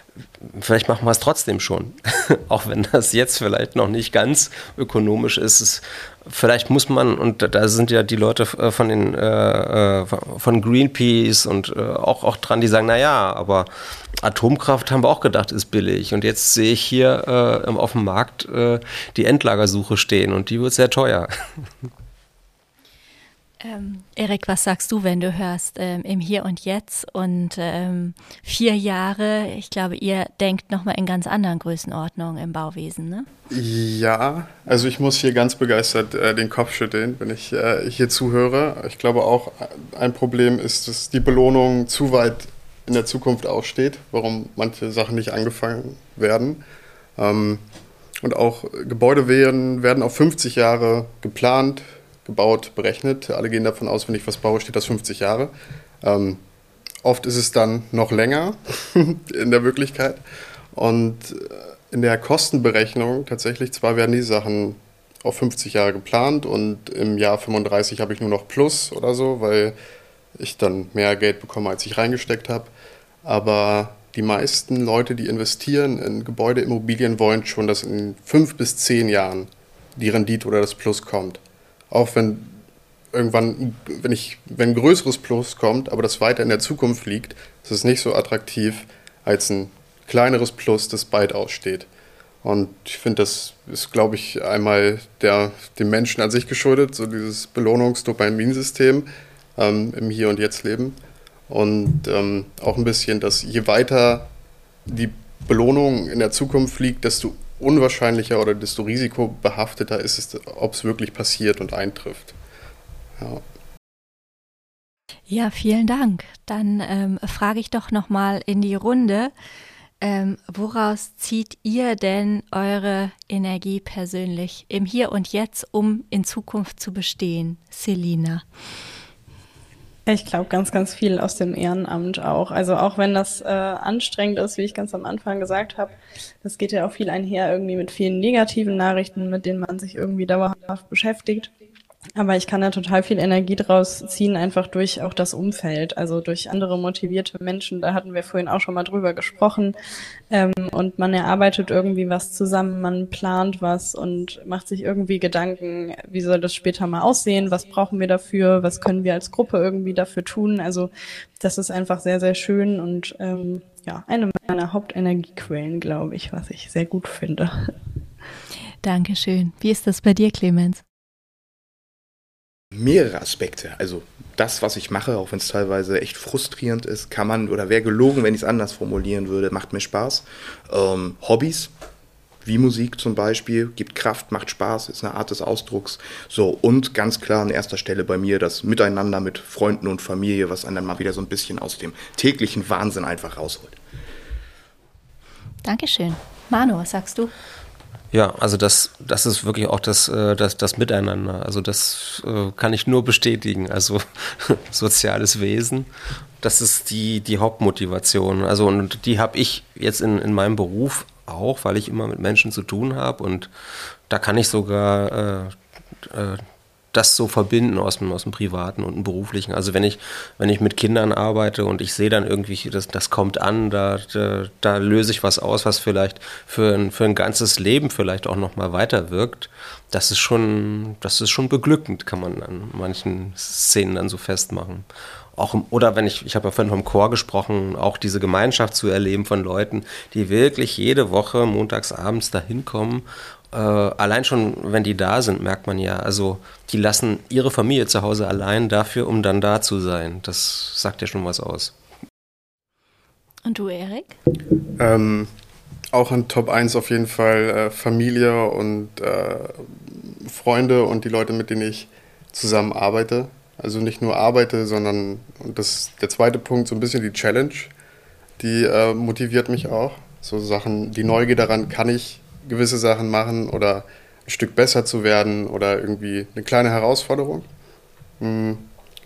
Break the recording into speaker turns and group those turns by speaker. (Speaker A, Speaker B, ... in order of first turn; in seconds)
Speaker A: 0.4-13.7, 14.2-21.9, 198.1-205.9, 206.4-213.5, 214.1-251.7
Speaker B: 23.6-33.3, 115.3-119.3, 120.0-128.4, 168.8-170.8, 195.6-197.3, 253.4-254.2
Speaker C: 33.5-46.6, 47.2-47.6, 48.2-56.4, 57.0-60.2, 60.7-69.8, 70.4-72.7, 73.2-82.6, 83.1-91.9, 92.4-101.0, 101.5-104.3, 104.9-112.4, 113.2-113.4, 254.8-255.3, 255.9-267.7, 268.4-277.5, 278.2-278.7
Speaker D: 130.1-141.5, 142.2-167.8
Speaker E: 172.7-181.7, 182.4-193.8